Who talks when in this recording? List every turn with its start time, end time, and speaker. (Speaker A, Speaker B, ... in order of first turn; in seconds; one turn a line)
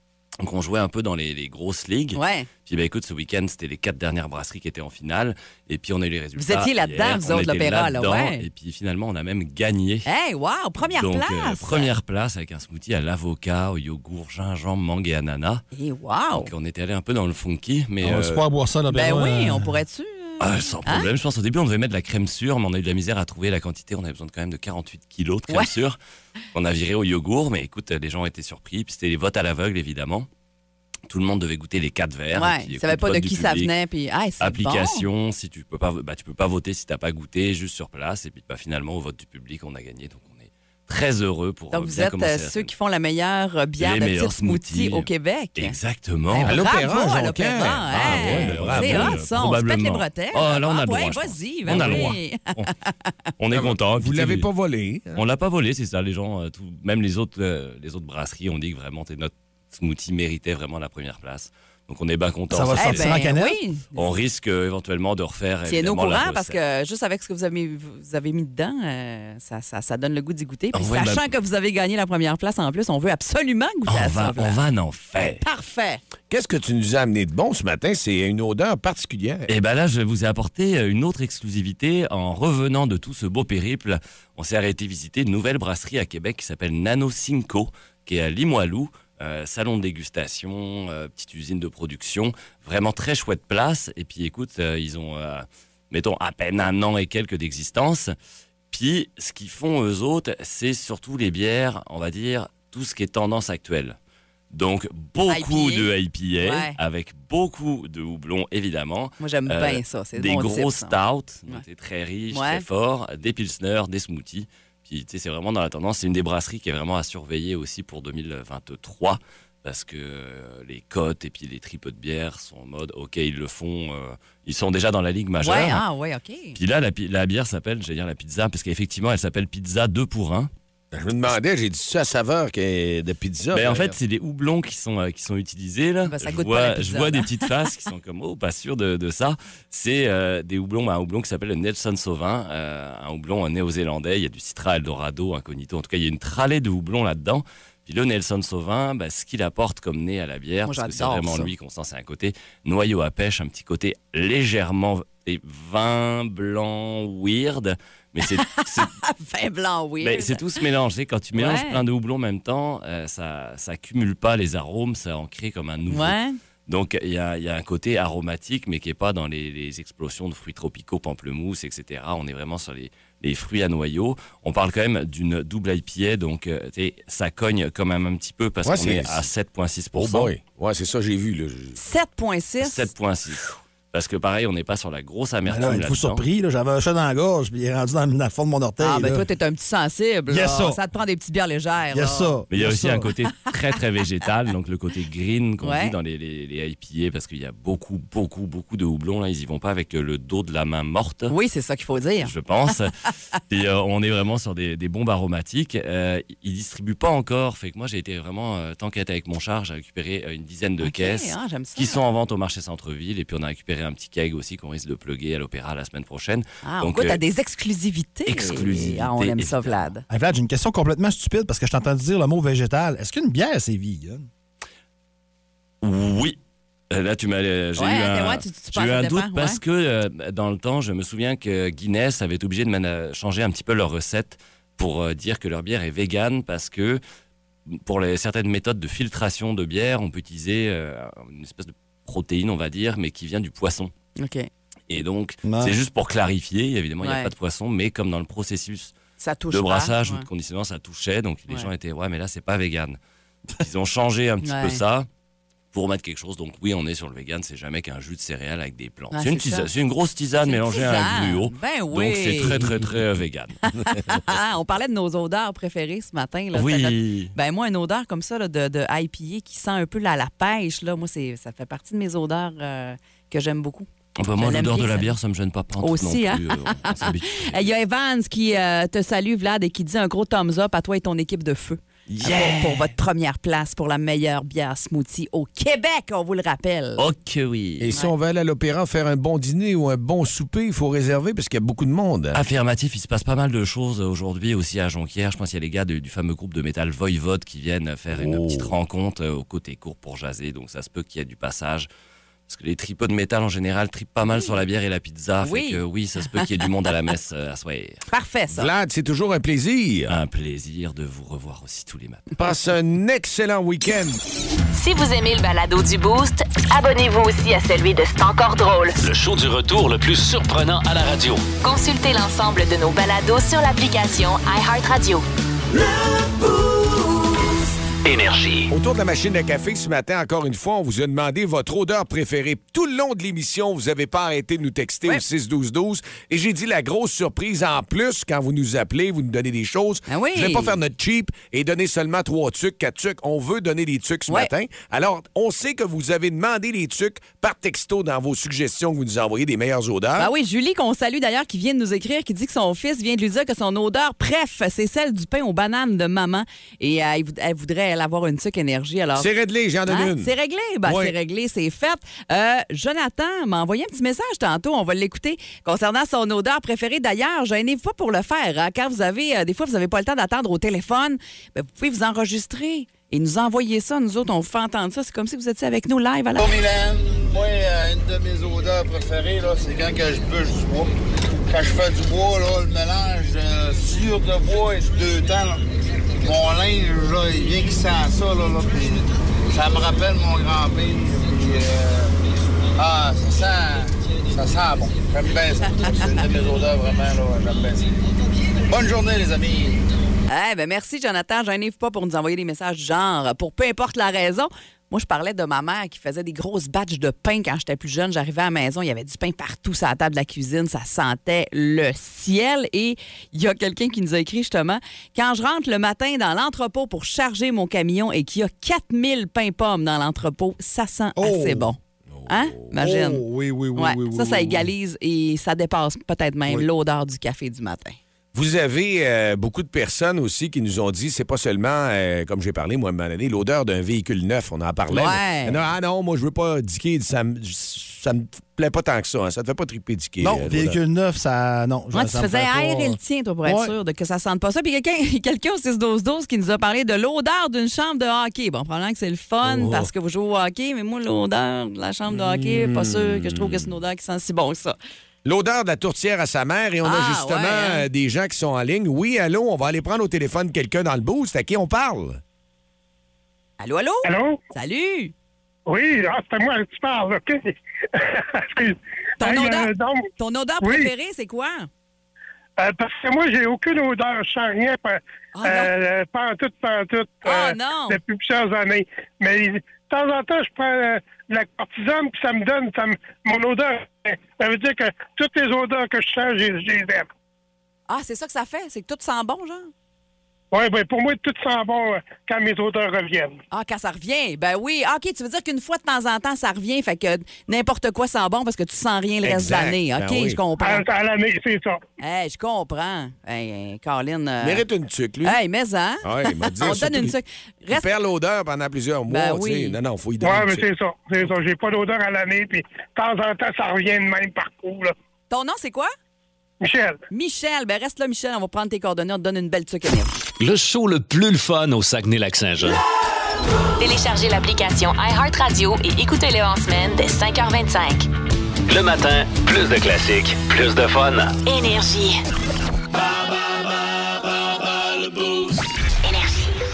Speaker A: 0.4-10.1
Speaker B: 2.1-2.5
Speaker B: 6.3-8.4
Speaker B: 10.0-11.9
Speaker A: 10.8-15.6
Speaker B: 15.7-16.5
Speaker A: 16.4-18.4
Speaker C: 18.0-19.8
Speaker B: 18.9-21.1
Speaker A: 20.4-26.0
Speaker A: 26.5-30.3
Speaker A: 31.1-33.7
Speaker B: 32.3-35.1
Speaker A: 34.4-42.7
Speaker B: 41.7-53.1
Speaker A: 43.8-46.6
Speaker D: 46.4-49.2
Speaker A: 47.9-52.7
Speaker D: 51.7-52.0
Speaker A: 53.4-54.5
Speaker D: 53.5-55.2
Speaker A: 55.1-63.1
Speaker C: 62.5-63.6
Speaker B: 62.7-63.9
Speaker A: 63.9-66.6
Speaker B: 65.7-74.6
Speaker A: 70.7-71.3
Speaker A: 73.9-75.4
Speaker B: 75.2-76.0
Speaker D: 76.3-79.5
Speaker A: 79.5-98.1
Speaker A: 98.7-104.0
Speaker A: 104.5-125.8
Speaker B: 105.3-106.8
Speaker B: 109.2-111.6
Speaker B: 112.3-112.7
Speaker B: 125.4-126.6
Speaker A: 126.5-130.5
Speaker D: 130.9-134.0
Speaker A: 133.5-158.9
Speaker B: 136.0-137.3
Speaker B: 150.6-151.5
Speaker B: 158.2-160.6
Speaker A: 160.0-166.2
Speaker B: 161.3-161.8
Speaker B: 165.9-166.4
Speaker A: 166.7-180.3
Speaker D: 178.6-179.3
Speaker D: 179.9-181.8
Speaker B: 181.7-182.9
Speaker A: 182.6-186.2
Speaker C: 185.4-189.2
Speaker B: 188.8-192.4
Speaker C: 190.3-190.8
Speaker C: 191.9-193.1
Speaker A: 192.5-201.3
Speaker B: 195.6-195.9
Speaker B: 201.3-202.3
Speaker A: 202.2-202.9
Speaker A: 203.5-217.2
Speaker B: 210.8-212.0
Speaker B: 216.6-220.0
Speaker A: 218.3-219.9
Speaker C: 220.1-224.3
Speaker A: 225.8-226.4
Speaker A: 226.9-237.0
Speaker B: 227.8-229.6
Speaker A: 237.7-243.9
Speaker B: 244.2-244.5
Speaker A: 244.9-248.9
Speaker C: 245.4-245.7
Speaker B: 247.0-247.3
Speaker B: 249.2-250.3
Speaker A: 249.5-253.0
Speaker A: 253.6-255.1
Speaker B: 254.4-254.8
Speaker A: 255.7-263.6
Speaker B: 259.1-259.7
Speaker B: 260.4-262.8
Speaker B: 263.6-275.1
Speaker A: 266.5-267.3
Speaker A: 274.2-277.7
Speaker B: 275.8-287.0
Speaker A: 282.1-282.9
Speaker A: 287.0-287.9
Speaker D: 287.8-292.4
Speaker A: 292.3-301.9
Speaker D: 298.1-298.7
Speaker A: 302.5-308.0
Speaker B: 304.3-304.5
Speaker B: 305.4-306.4
Speaker B: 308.1-308.7
Speaker D: 308.5-310.2
Speaker A: 310.1-312.3
Speaker D: 312.3-314.2
Speaker E: 314.7-319.0
Speaker F: 319.0-321.5
Speaker E: 321.6-325.2
Speaker F: 328.0-328.7
Speaker D: 328.7-350.3
Speaker B: 340.1-340.8
Speaker B: 350.2-359.3
Speaker D: 359.1-360.3
Speaker B: 359.9-376.5
Speaker D: 360.8-361.1
Speaker G: 376.4-385.6
Speaker G: 386.2-392.2
Speaker G: 392.7-397.9
Speaker G: 398.6-399.8
Speaker B: 400.3-428.0
Speaker C: 421.1-421.7
Speaker D: 422.1-422.6
Speaker C: 422.7-424.7
Speaker D: 428.3-440.8
Speaker B: 434.9-435.6
Speaker C: 440.2-443.7
Speaker B: 441.9-454.8
Speaker D: 449.4-449.9
Speaker D: 452.1-453.7
Speaker D: 455.2-462.2
Speaker B: 456.8-457.9
Speaker B: 463.6-465.1
Speaker H: 464.0-464.4
Speaker H: 465.7-470.1
Speaker B: 469.2-471.7
Speaker H: 470.6-470.9
Speaker H: 472.6-487.1
Speaker B: 475.3-475.7
Speaker B: 477.2-478.0
Speaker B: 487.9-489.7
Speaker H: 490.5-493.4
Speaker B: 493.5-500.8
Speaker D: 499.2-500.4
Speaker H: 500.6-501.8
Speaker B: 502.0-504.6
Speaker D: 504.4-505.4
Speaker B: 505.2-507.9
Speaker D: 506.0-507.1
Speaker D: 507.7-510.7
Speaker B: 509.1-509.8
Speaker H: 510.2-514.9
Speaker B: 515.3-515.9
Speaker H: 516.6-517.0
Speaker B: 517.1-520.1
Speaker F: 520.4-522.8
Speaker E: 523.8-528.1
Speaker F: 528.7-531.4
Speaker E: 531.4-532.2
Speaker E: 536.0-536.5